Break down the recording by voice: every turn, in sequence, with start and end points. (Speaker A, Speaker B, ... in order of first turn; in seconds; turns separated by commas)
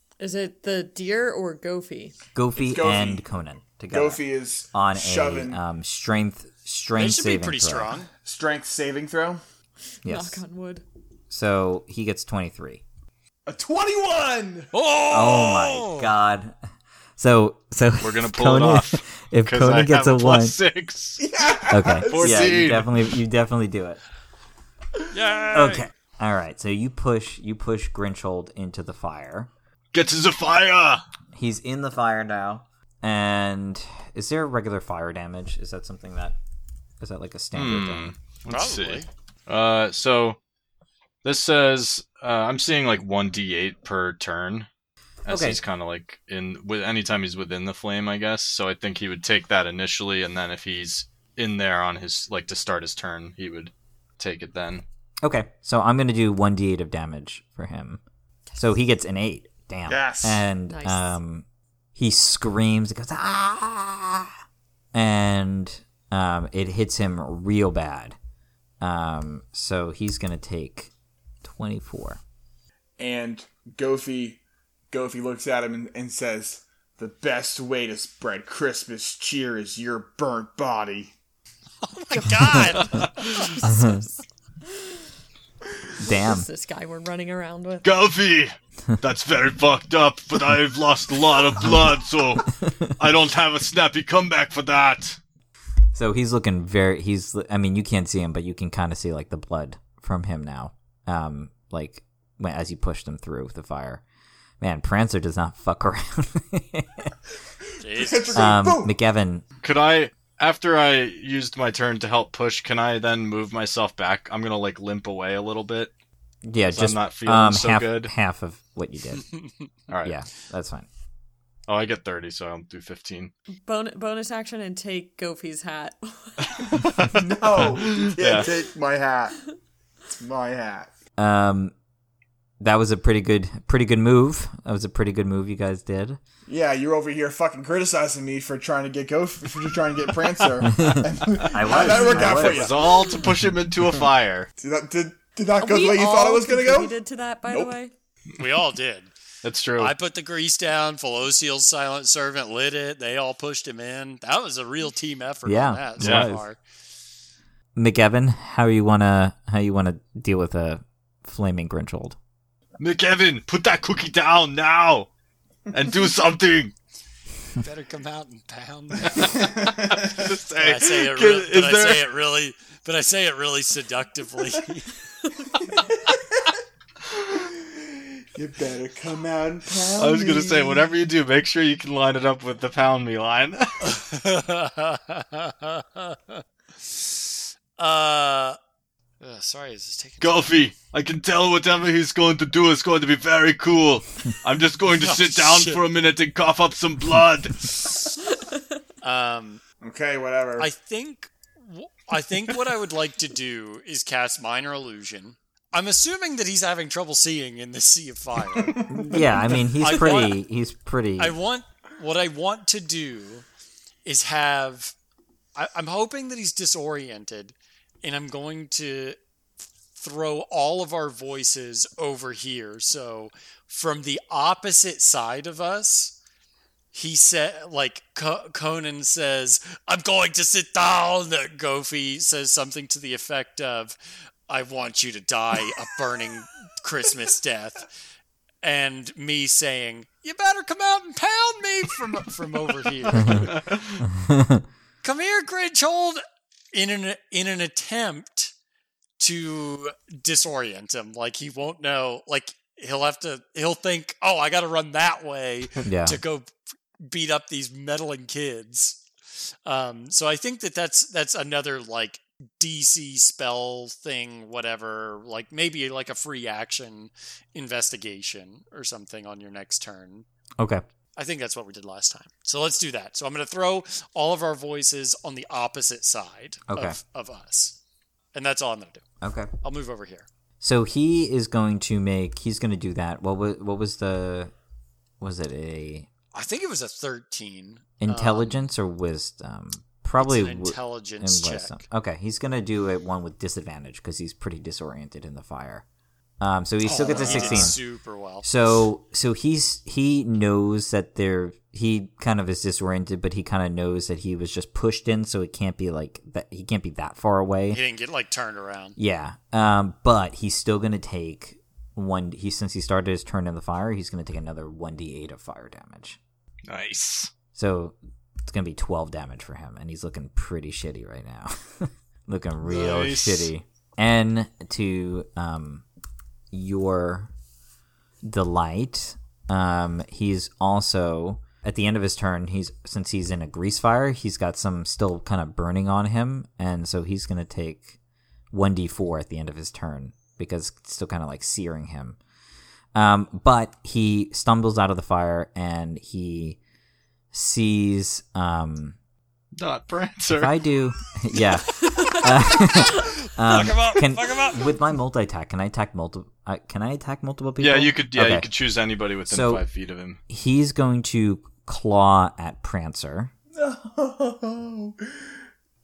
Speaker A: 0.2-2.1, Speaker B: 2.3-4.2, Speaker C: 2.5-3.2, Speaker C: 3.9-5.6, Speaker B: 4.7-8.0, Speaker D: 7.0-8.1, Speaker C: 8.2-9.4, Speaker A: 10.0-10.8, Speaker B: 10.0-10.4, Speaker B: 11.3-12.8, Speaker C: 13.5-14.7, Speaker D: 14.7-16.1, Speaker B: 15.1-16.6, Speaker B: 17.2-20.6, Speaker E: 18.0-21.2, Speaker C: 21.2-22.6, Speaker B: 21.7-24.0, Speaker E: 22.0-23.1, Speaker D: 25.1-25.9, Speaker B: 25.5-29.5, Speaker E: 29.9-31.0, Speaker B: 31.3-36.4, Speaker B: 37.0-38.1, Speaker E: 37.5-40.4, Speaker D: 38.5-39.1, Speaker E: 41.2-44.7, Speaker E: 45.2-54.8, Speaker B: 45.3-45.6, Speaker B: 55.2-58.0, Speaker B: 58.6-61.4, Speaker C: 59.9-60.4, Speaker A: 60.7-61.1, Speaker B: 62.0-64.3, Speaker B: 64.9-68.2, Speaker B: 68.8-70.9, Speaker B: 71.4-72.2, Speaker C: 73.0-81.1, Speaker D: 81.8-83.7, Speaker A: 82.2-85.0, Speaker E: 82.8-83.2, Speaker B: 83.6-84.0, Speaker B: 86.0-86.5, Speaker A: 86.1-87.9, Speaker E: 87.8-95.2, Speaker B: 92.6-92.9, Speaker B: 95.9-104.0, Speaker B: 104.6-107.1, Speaker C: 107.8-108.9, Speaker D: 107.8-108.5, Speaker B: 108.3-109.4, Speaker E: 109.6-115.9, Speaker B: 116.4-119.2, Speaker E: 116.7-118.1, Speaker B: 120.0-120.9, Speaker E: 121.7-123.3, Speaker A: 123.6-126.5, Speaker E: 126.4-128.5, Speaker C: 127.0-129.5, Speaker C: 130.2-130.9, Speaker B: 131.2-131.7, Speaker B: 132.6-136.2, Speaker C: 136.5-143.1, Speaker B: 140.6-142.7, Speaker E: 141.4-144.5, Speaker C: 144.6-146.9, Speaker A: 145.6-147.9, Speaker C: 147.5-147.7, Speaker D: 148.4-149.1, Speaker E: 149.4-149.9, Speaker D: 149.8-156.6, Speaker B: 155.4-156.4, Speaker E: 156.0-156.3, Speaker B: 157.8-162.2, Speaker E: 162.8-165.1, Speaker E: 165.7-166.7, Speaker D: 167.6-169.5, Speaker E: 169.0-172.1, Speaker C: 169.2-170.3, Speaker D: 170.6-174.9, Speaker C: 175.7-176.5, Speaker C: 177.1-180.8, Speaker E: 180.0-183.9, Speaker D: 183.8-188.6, Speaker D: 189.2-190.6, Speaker E: 190.2-197.9, Speaker D: 194.9-195.8, Speaker D: 199.0-199.6, Speaker C: 199.8-200.7, Speaker D: 200.6-209.0, Speaker C: 208.5-209.6, Speaker B: 208.9-211.3, Speaker D: 209.8-210.4, Speaker D: 211.2-213.4, Speaker D: 214.0-214.9, Speaker D: 215.5-219.2, Speaker D: 219.9-226.2, Speaker D: 226.9-234.0, Speaker D: 234.5-237.9, Speaker D: 238.6-244.0, Speaker B: 243.2-243.5, Speaker E: 243.5-243.8, Speaker B: 244.0-244.6, Speaker D: 245.0-246.2, Speaker D: 246.7-248.5, Speaker D: 249.2-259.0, Speaker B: 255.8-256.2, Speaker D: 259.6-270.2, Speaker D: 271.1-277.8, Speaker B: 276.7-277.0, Speaker D: 278.3-279.0, Speaker B: 279.2-279.5, Speaker D: 279.6-280.3, Speaker B: 280.6-284.5, Speaker B: 285.2-286.1, Speaker D: 286.3-288.6, Speaker B: 288.0-295.8, Speaker D: 290.2-291.8, Speaker B: 296.4-297.8, Speaker D: 296.8-298.5, Speaker C: 297.0-297.8, Speaker B: 298.4-307.8, Speaker D: 307.7-309.0, Speaker B: 309.0-316.2, Speaker E: 316.7-317.3, Speaker B: 317.5-325.8, Speaker E: 322.6-323.5, Speaker B: 326.5-327.3, Speaker B: 328.2-337.9, Speaker B: 338.5-342.2, Speaker B: 342.9-346.6, Speaker B: 347.3-348.9, Speaker E: 349.5-350.6, Speaker B: 350.4-358.5, Speaker A: 351.8-352.2, Speaker D: 352.9-354.8, Speaker E: 357.6-360.2, Speaker B: 359.3-359.6, Speaker B: 360.3-363.3, Speaker C: 363.5-365.3